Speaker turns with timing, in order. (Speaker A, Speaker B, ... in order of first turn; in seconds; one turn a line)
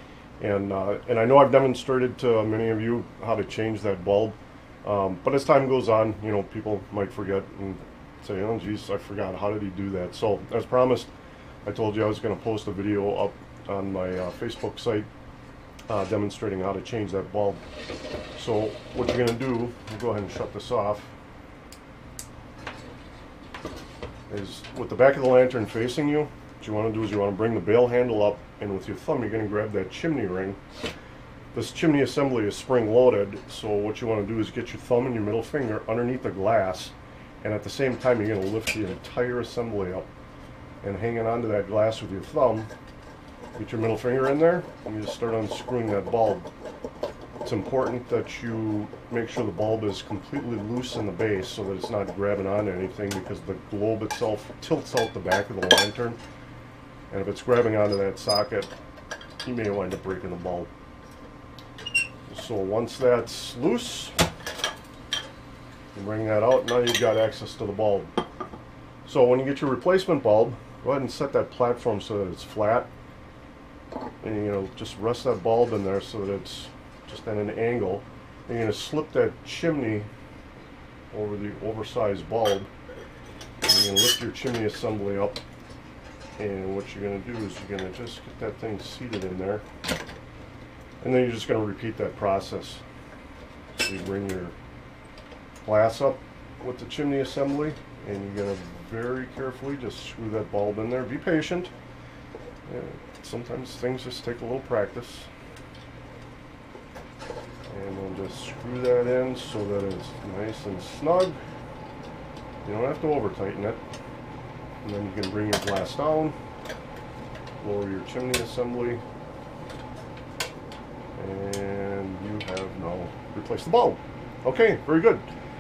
Speaker A: 0.4-11.1
Speaker A: 11.7-15.1
Speaker A: 15.9-17.6
Speaker A: 18.3-21.1
Speaker A: 24.3-30.6
Speaker A: 31.5-40.1
Speaker A: 40.8-42.7
Speaker A: 43.6-46.5
Speaker A: 47.4-56.2
Speaker A: 57.1-58.7
Speaker A: 59.4-60.7
Speaker A: 62.3-64.2
Speaker A: 65.9-68.1
Speaker A: 69.0-72.9
Speaker A: 74.2-80.1
Speaker A: 81.1-82.7
Speaker A: 83.6-85.4
Speaker A: 86.4-89.6
Speaker A: 91.0-92.8
Speaker A: 93.8-94.5
Speaker A: 95.6-101.7
Speaker A: 102.7-105.3
Speaker A: 107.7-111.4
Speaker A: 112.7-113.8
Speaker A: 114.8-116.4
Speaker A: 117.6-119.0
Speaker A: 121.2-125.3